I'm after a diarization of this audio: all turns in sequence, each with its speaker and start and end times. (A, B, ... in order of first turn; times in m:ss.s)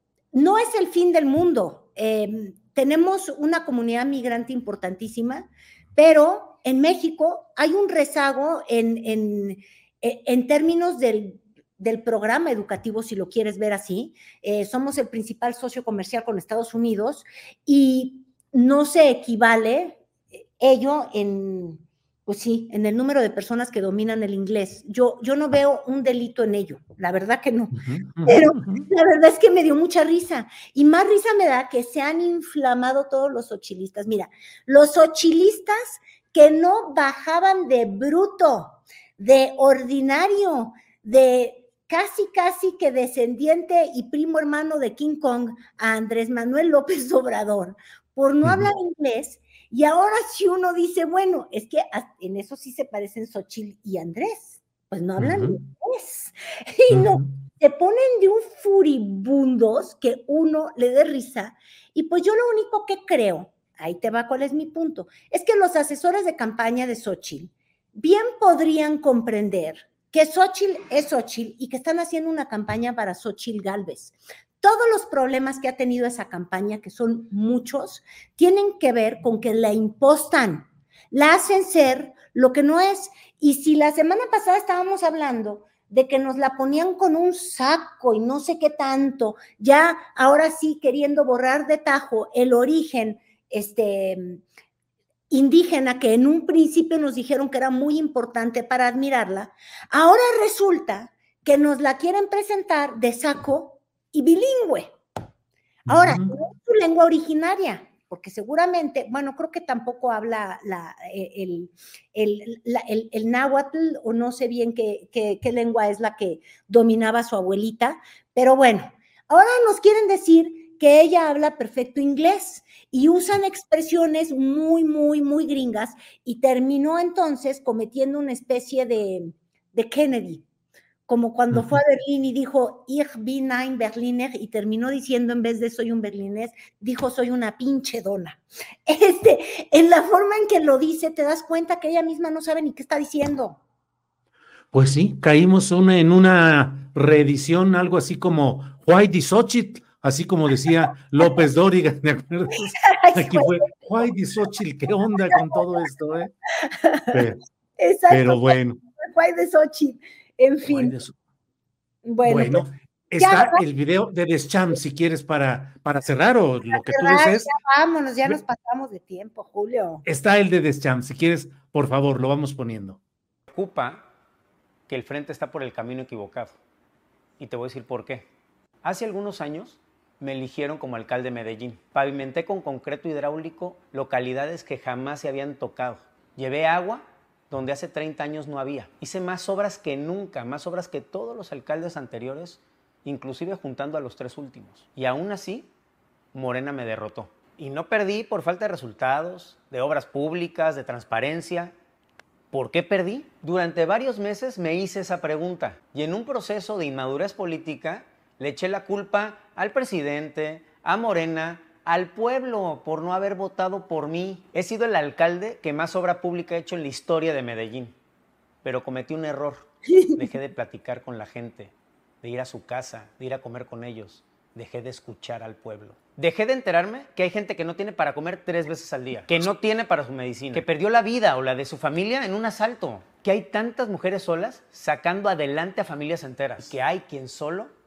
0:00.3-0:20.0 A
0:20.6-1:34.4 A
0:27.8-0:28.8 B
0:48.4-0:48.7 B
0:55.2-0:55.6 B
0:56.9-0:57.4 B
1:35.3-1:44.9 A
1:45.9-1:46.3 B
1:45.9-2:10.5 A
2:11.1-2:23.6 A
2:24.7-2:36.3 B
2:32.6-2:34.1 A
2:35.2-2:35.8 A
2:36.6-2:41.0 A
2:37.1-2:37.4 B
2:38.1-2:38.8 B
2:40.7-2:41.2 B
2:42.0-2:42.7 A
2:42.2-2:47.5 B
2:43.2-2:43.6 A
2:46.7-2:50.0 A
2:50.1-2:53.0 B
2:53.5-2:54.0 C
2:54.9-2:56.6 C
2:57.4-2:58.3 C
2:58.8-3:15.7 C
3:16.3-3:21.7 C
3:22.5-3:37.9 C
3:38.6-3:57.7 C
3:40.0-3:40.2 A